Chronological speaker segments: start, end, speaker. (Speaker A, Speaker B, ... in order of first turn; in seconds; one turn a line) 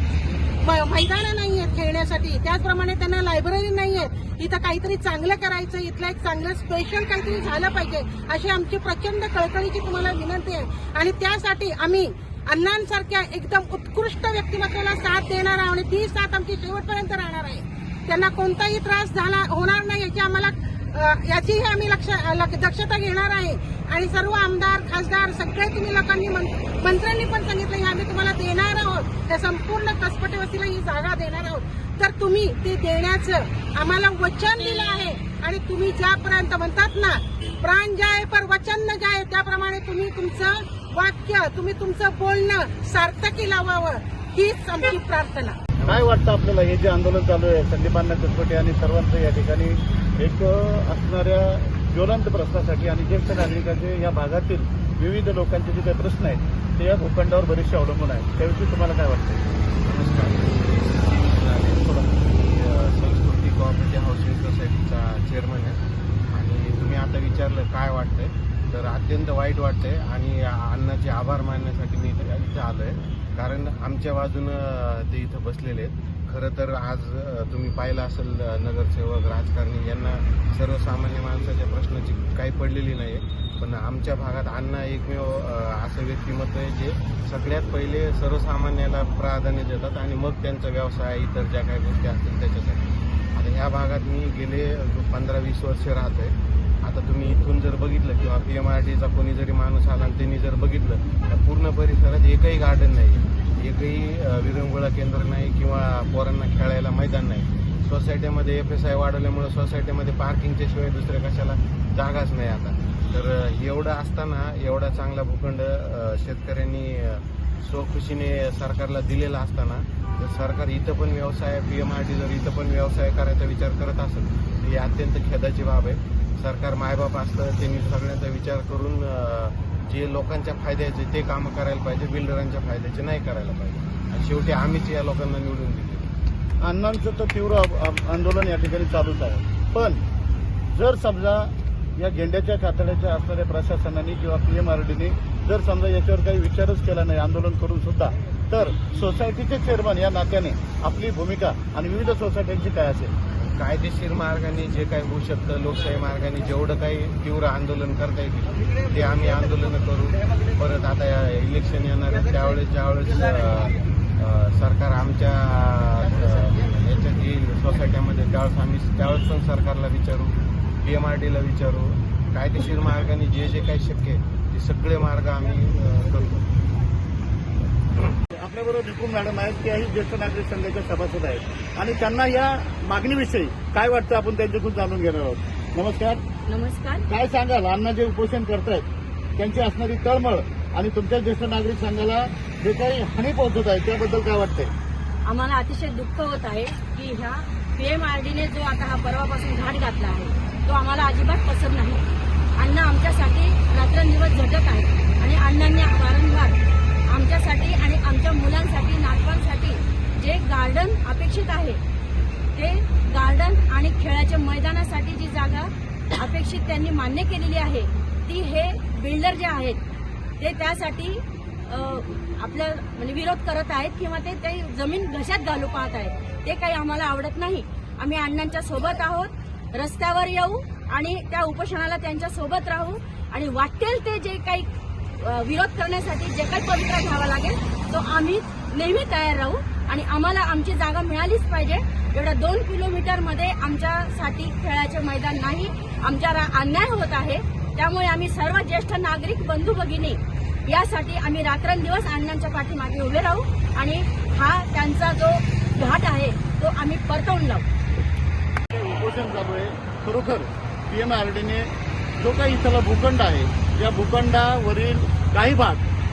Speaker A: 0.6-45.6
Speaker B: 45.9-59.4
Speaker C: 59.9-65.8
Speaker C: 66.3-136.1
Speaker B: 136.6-140.0
Speaker B: 140.7-153.1
Speaker C: 153.4-176.4
Speaker B: 178.3-186.2
Speaker D: 186.5-187.1
Speaker B: 187.1-194.7
Speaker D: 195.2-202.1
Speaker D: 202.6-211.8
Speaker D: 212.6-219.8
Speaker D: 220.4-257.7
Speaker B: 258.7-265.9